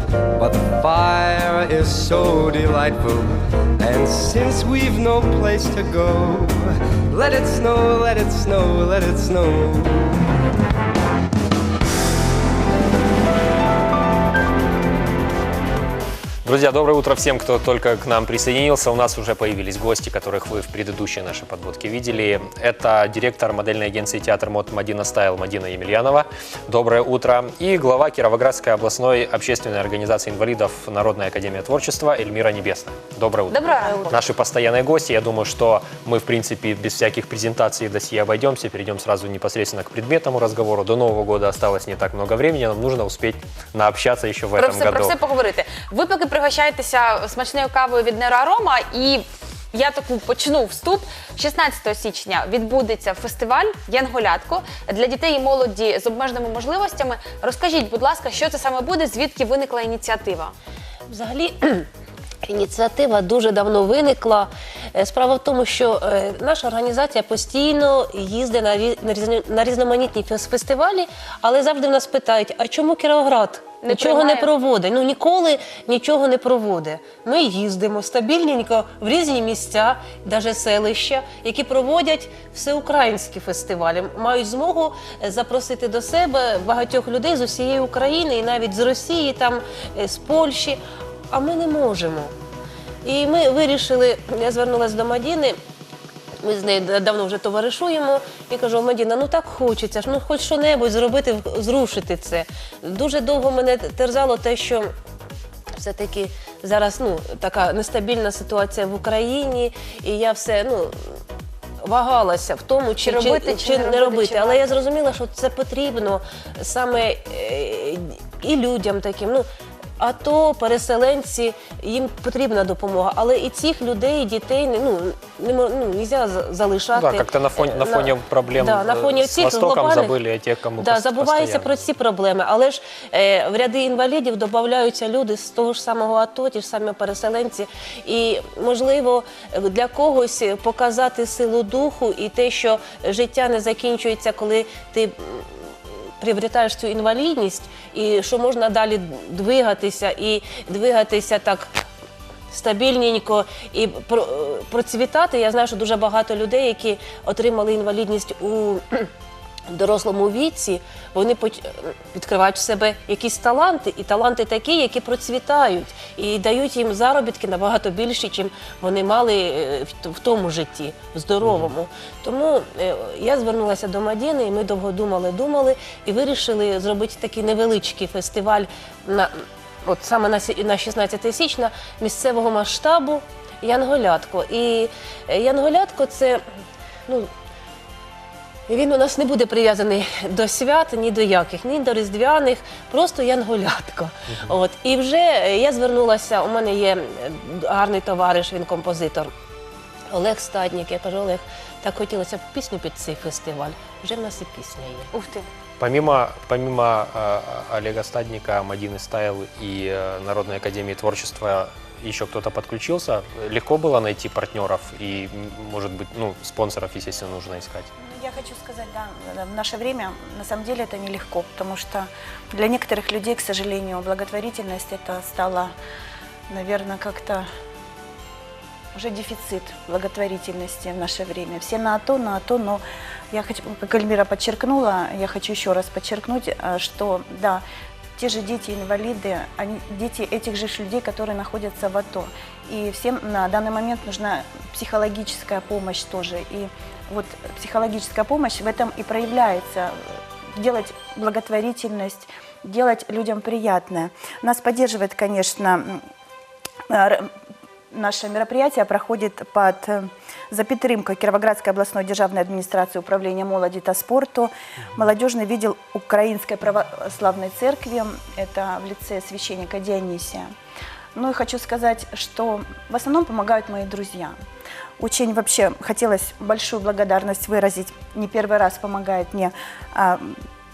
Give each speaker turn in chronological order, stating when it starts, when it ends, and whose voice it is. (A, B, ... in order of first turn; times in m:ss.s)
0:00.3-0:10.2 A
0:16.4-0:45.2 B
0:33.5-0:34.2 C
0:33.9-0:34.2 D
0:44.6-1:00.5 C
1:01.1-1:01.9 E
1:02.4-1:32.3 E
1:13.8-1:14.5 C
1:33.0-1:35.6 E
1:36.4-1:44.9 E
1:45.7-1:51.2 E
1:51.8-1:59.4 E
1:53.0-1:54.6 C
2:00.0-2:10.2 E
2:06.9-2:11.8 B
2:10.8-2:31.7 E
2:32.5-2:39.1 E
2:39.7-2:59.3 E
2:51.4-2:51.7 B
2:59.8-3:06.4 E
3:08.7-3:19.3 E
3:20.1-3:25.1 E
3:25.1-3:25.5 C
3:25.8-3:37.9 B
3:38.0-3:45.7 D
3:46.5-3:47.5 D
3:48.9-3:57.6 D
3:58.2-4:16.0 D
4:16.9-4:17.3 D
4:17.9-4:30.5 D
4:31.1-4:34.4 D
4:35.0-4:40.4 D